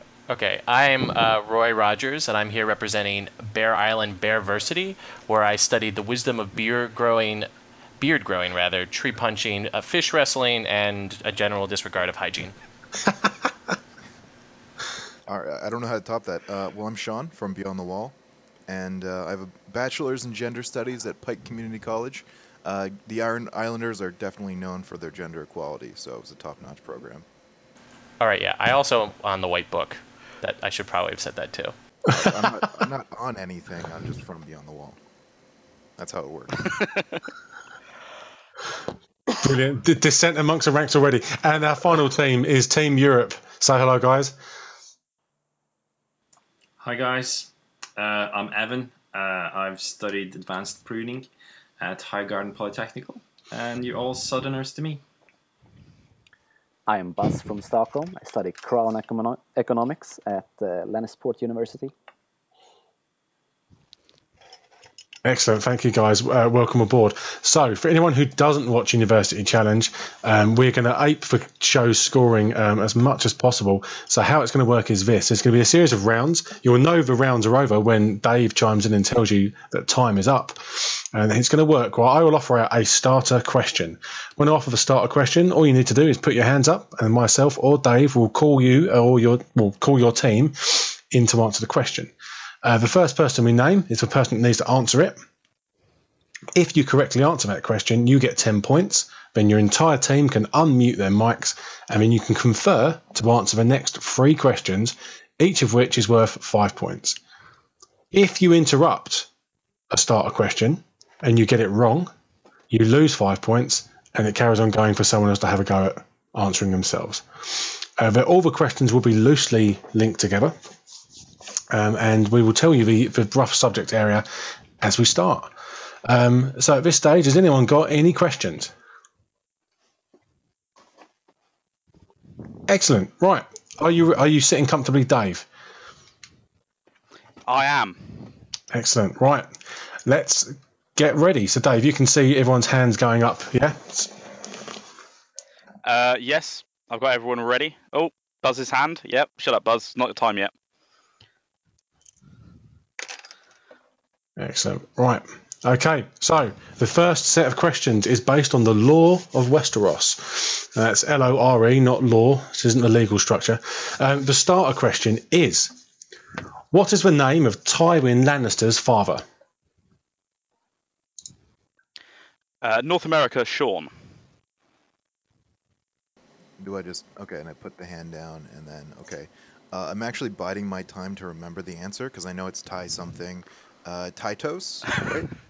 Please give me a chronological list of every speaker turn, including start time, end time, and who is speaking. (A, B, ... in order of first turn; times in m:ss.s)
0:00.3-0:07.5 A
0:08.0-0:12.5 A
0:15.3-0:18.1 B
0:18.7-0:27.2 B
0:28.2-0:31.7 A
0:32.1-0:35.0 B
0:36.0-0:36.7 B
0:39.4-0:44.3 C
0:46.8-0:51.3 D
0:51.8-0:55.0 D
0:56.9-1:01.9 E
1:05.2-1:32.1 C
1:32.6-1:35.2 C
1:36.5-1:47.2 C
1:48.1-1:49.3 C
1:49.9-1:52.1 C
1:52.7-2:00.5 C
2:01.7-2:04.2 C
2:04.8-2:05.5 C
2:06.0-2:08.7 C
2:12.7-2:15.4 C
2:17.4-2:18.2 F
2:18.7-2:19.5 C
2:20.0-2:24.1 C
2:25.8-2:30.5 F
2:34.4-2:45.7 C
2:46.7-2:49.2 C
2:52.6-2:53.9 F
2:56.6-3:05.3 B